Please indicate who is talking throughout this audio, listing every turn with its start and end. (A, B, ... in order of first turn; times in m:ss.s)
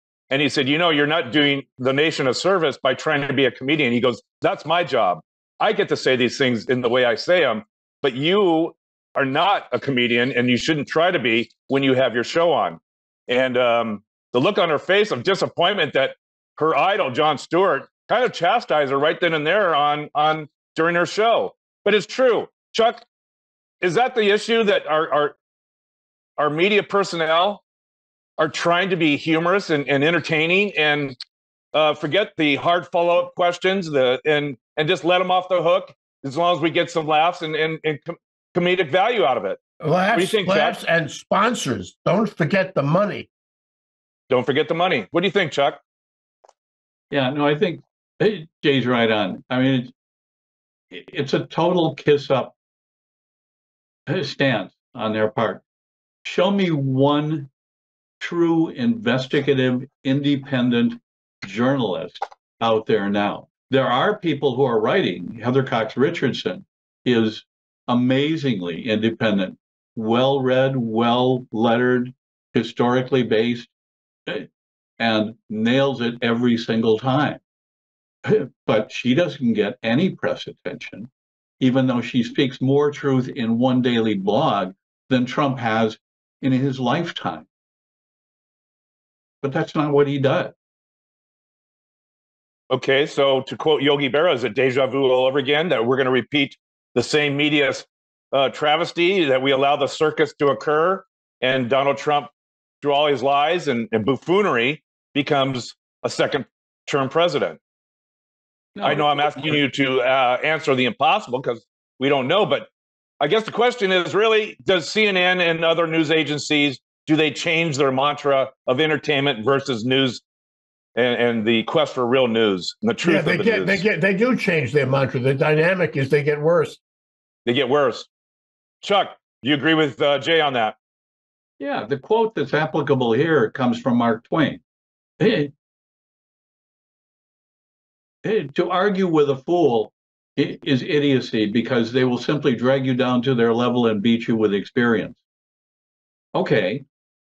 0:00.3-0:23.0 A
0:23.8-0:25.4 A
0:26.4-0:27.6 A
0:28.4-0:31.2 A
0:31.7-0:39.6 A
0:39.8-0:43.3 B
0:40.1-0:40.8 A
0:44.3-0:45.8 A
0:47.1-0:49.9 C
0:50.9-0:52.5 C
0:54.1-0:55.6 C
0:56.2-0:57.5 C
0:58.2-1:13.7 C
1:15.0-1:17.4 C
1:18.2-1:27.5 C
1:29.4-1:30.5 C
1:32.7-1:47.6 A
1:48.8-1:49.6 C
1:48.8-2:00.2 A
2:00.9-2:03.8 A
2:03.0-2:06.8 B
2:07.4-2:08.1 A
2:08.8-2:10.8 A
2:11.6-2:14.6 C
2:15.2-2:15.5 C
2:18.2-2:25.2 C
2:26.3-2:26.8 C